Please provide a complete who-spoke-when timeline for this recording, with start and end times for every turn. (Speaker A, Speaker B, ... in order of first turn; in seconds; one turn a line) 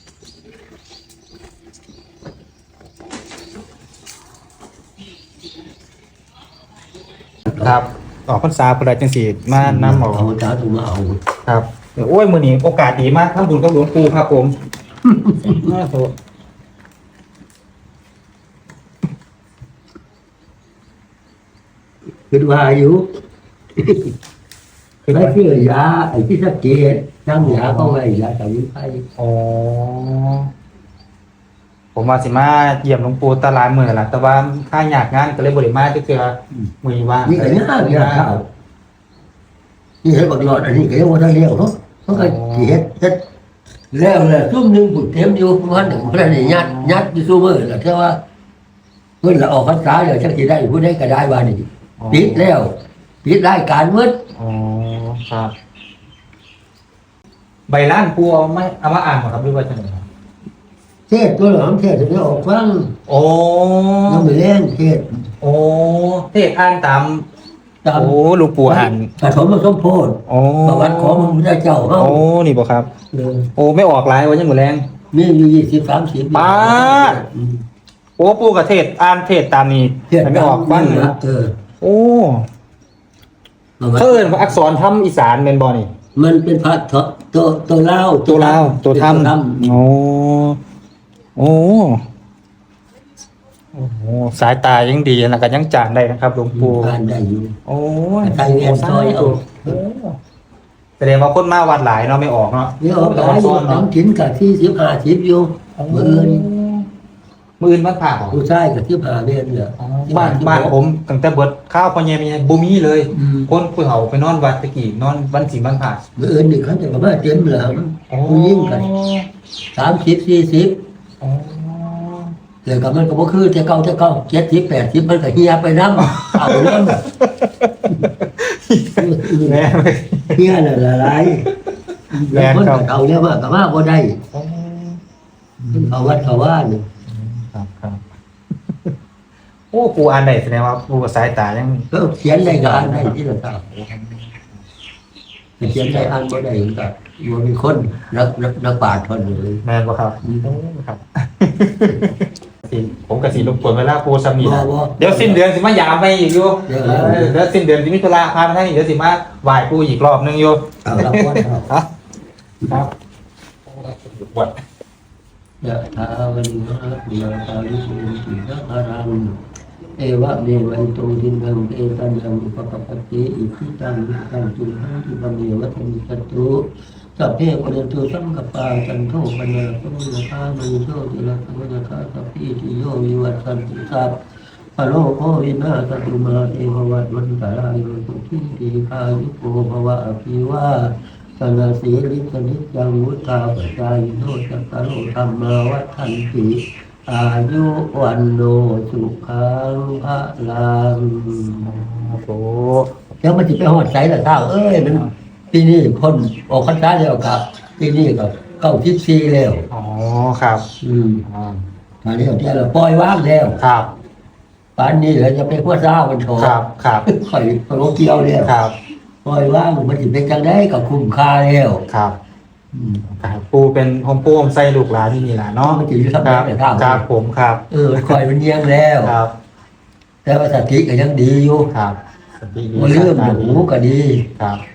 Speaker A: 7.5-10.3
Speaker B: 9.6-11.2
Speaker A: 11.4-14.5
Speaker B: 15.1-15.7
Speaker A: 15.4-16.1
Speaker B: 22.3-23.1
Speaker B: 23.8-24.1
Speaker A: 25.1-25.4
Speaker B: 25.1-29.1
Speaker A: 27.4-28.1
Speaker A: 29.2-30.5
Speaker A: 31.9-38.4
Speaker B: 37.2-38.5
Speaker B: 40.0-43.2
Speaker A: 42.1-42.8
Speaker B: 43.9-48.2
Speaker A: 45.7-47.1
Speaker B: 49.2-54.2
Speaker A: 52.0-52.5
Speaker A: 54.4-55.5
Speaker A: 57.7-60.0
Speaker B: 61.1-63.0
Speaker A: 63.1-64.3
Speaker B: 64.1-65.2
Speaker A: 65.4-67.3
Speaker B: 67.8-72.2
Speaker A: 67.9-69.2
Speaker A: 70.3-71.4
Speaker A: 72.0-72.9
Speaker B: 73.1-73.5
Speaker A: 73.6-74.9
Speaker B: 75.1-77.6
Speaker A: 76.3-77.2
Speaker A: 78.2-81.2
Speaker B: 80.1-81.6
Speaker A: 81.8-82.5
Speaker B: 83.8-84.6
Speaker A: 83.9-85.9
Speaker B: 86.2-89.8
Speaker A: 88.3-90.6
Speaker A: 91.3-92.0
Speaker A: 93.7-97.0
Speaker B: 96.5-97.6
Speaker A: 97.7-100.2
Speaker B: 98.2-99.8
Speaker A: 101.0-103.9
Speaker B: 102.8-106.5
Speaker A: 105.8-106.9
Speaker A: 107.6-108.4
Speaker B: 108.3-110.8
Speaker A: 109.8-116.0
Speaker B: 113.1-113.5
Speaker B: 116.2-118.9
Speaker A: 118.1-119.3
Speaker B: 119.8-120.8
Speaker A: 121.2-122.3
Speaker B: 122.6-127.0
Speaker A: 126.0-130.6
Speaker B: 129.0-129.7
Speaker B: 130.3-131.5
Speaker A: 131.2-131.7
Speaker B: 132.1-134.2
Speaker A: 132.3-133.0
Speaker A: 134.3-135.0
Speaker A: 135.6-136.3
Speaker B: 135.7-136.9
Speaker A: 137.1-138.0
Speaker A: 139.7-143.2
Speaker B: 141.9-143.7
Speaker A: 143.7-144.4
Speaker B: 145.6-149.6
Speaker A: 149.6-161.9
Speaker B: 150.2-150.5
Speaker B: 153.3-153.6
Speaker B: 154.4-155.4
Speaker B: 156.7-157.4
Speaker B: 160.8-161.7
Speaker A: 162.6-162.9
Speaker A: 163.7-164.5
Speaker B: 165.6-169.4
Speaker B: 170.0-184.2
Speaker B: 184.8-201.7
Speaker A: 201.6-202.9
Speaker B: 203.2-209.7
Speaker A: 209.7-210.7
Speaker B: 210.8-211.2
Speaker A: 211.3-211.6
Speaker B: 212.0-213.6
Speaker A: 213.6-213.9
Speaker B: 214.8-216.5
Speaker A: 216.4-217.1
Speaker B: 217.1-218.5
Speaker A: 218.4-218.8
Speaker B: 219.2-221.8
Speaker A: 221.9-222.2
Speaker B: 222.7-223.0
Speaker A: 223.0-228.2
Speaker B: 225.6-227.0
Speaker B: 227.7-229.2
Speaker A: 229.0-229.3
Speaker B: 230.2-231.7
Speaker A: 231.7-233.6
Speaker B: 232.8-234.3